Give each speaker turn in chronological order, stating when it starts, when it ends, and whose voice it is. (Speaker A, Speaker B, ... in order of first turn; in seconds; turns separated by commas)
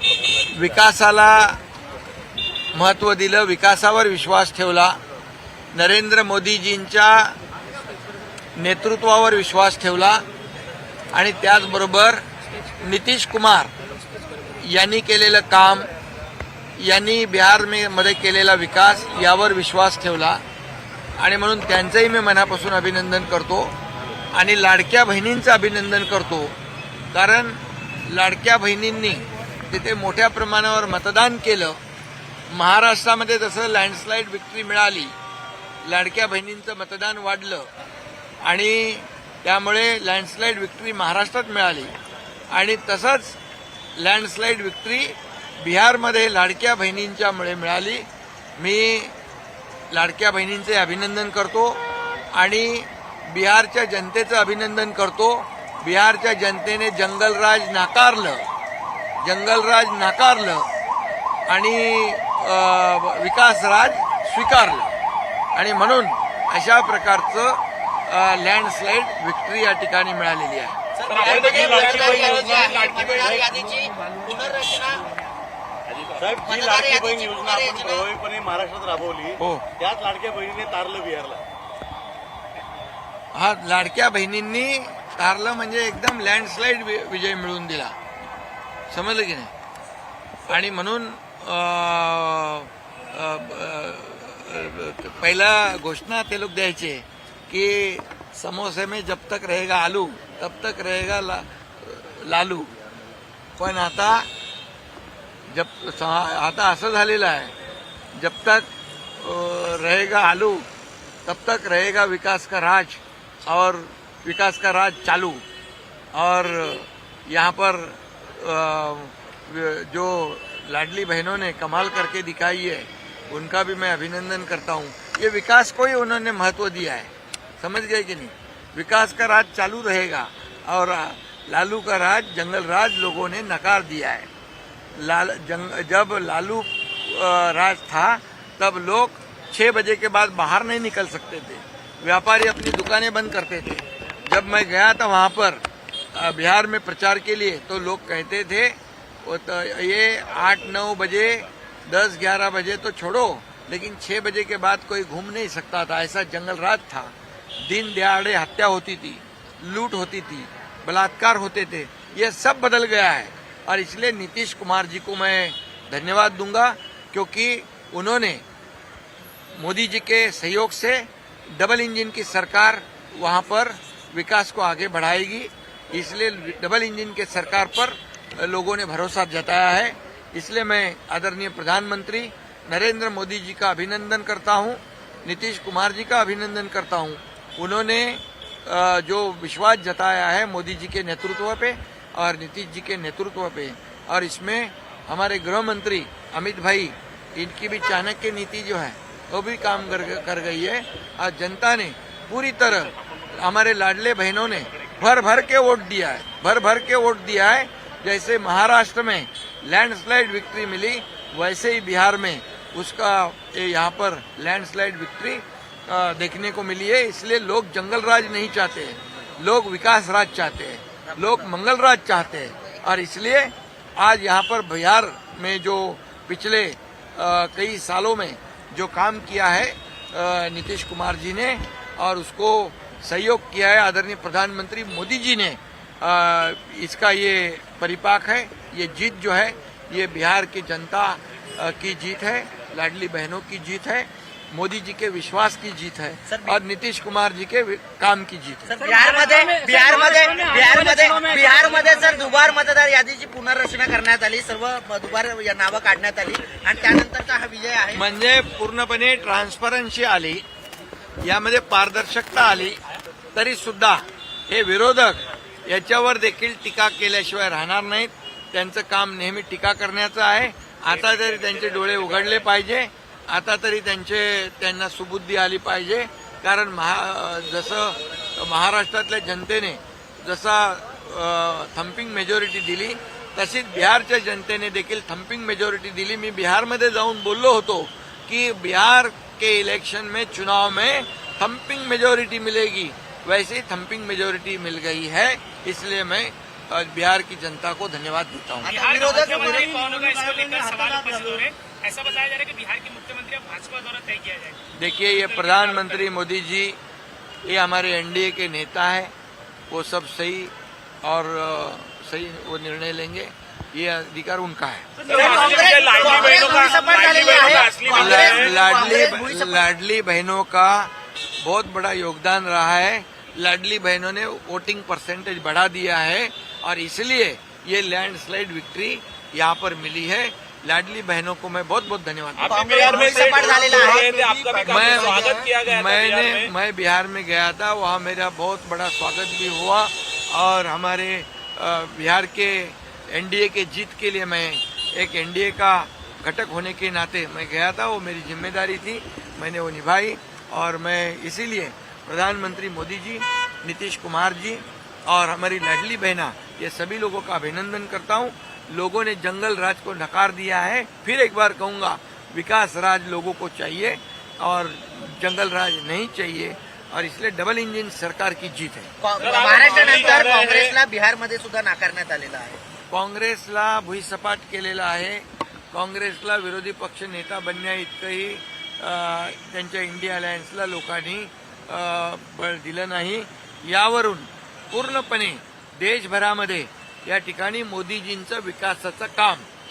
Speaker A: 0.5-1.6, Speaker A: 2.7-5.0, Speaker A: 5.7-7.3, Speaker A: 8.6-10.2, Speaker A: 11.1-12.2, Speaker A: 12.8-13.7, Speaker A: 14.6-15.9, Speaker A: 16.8-20.4, Speaker A: 21.2-23.7, Speaker A: 24.3-26.6, Speaker A: 27.1-31.8, Speaker A: 32.5-35.1, Speaker A: 35.8-37.7, Speaker A: 38.4-41.9, Speaker A: 42.5-43.4, Speaker A: 44.0-48.1, Speaker A: 48.6-49.1, Speaker A: 49.9-51.8, Speaker A: 52.3-58.5, Speaker A: 59.2-60.7, Speaker A: 61.5-64.9, Speaker A: 65.5-70.8, Speaker B: 70.9-75.1, Speaker C: 71.1-73.5, Speaker D: 76.2-81.4, Speaker B: 76.3-78.1, Speaker A: 79.4-79.7, Speaker A: 83.3-88.0, Speaker A: 88.9-89.5, Speaker A: 90.5-102.7, Speaker A: 103.6-104.3, Speaker A: 105.5-107.5, Speaker A: 108.1-110.7, Speaker A: 111.2-115.4, Speaker A: 116.1-134.3, Speaker A: 135.0-145.6, Speaker A: 146.1-168.4, Speaker A: 169.6-248.8, Speaker B: 246.3-246.6, Speaker B: 248.7-258.1, Speaker C: 248.8-252.2, Speaker A: 257.9-260.4, Speaker A: 261.2-262.8, Speaker A: 263.3-298.7, Speaker B: 298.6-301.1, Speaker C: 298.6-306.1, Speaker A: 304.7-306.8, Speaker A: 307.4-309.1, Speaker A: 309.7-315.0, Speaker C: 315.0-319.0, Speaker B: 315.1-319.8, Speaker A: 317.8-332.6, Speaker C: 332.4-336.5, Speaker B: 332.4-335.5, Speaker A: 334.6-368.9, Speaker B: 369.0-372.6, Speaker C: 369.2-370.8, Speaker A: 372.9-389.5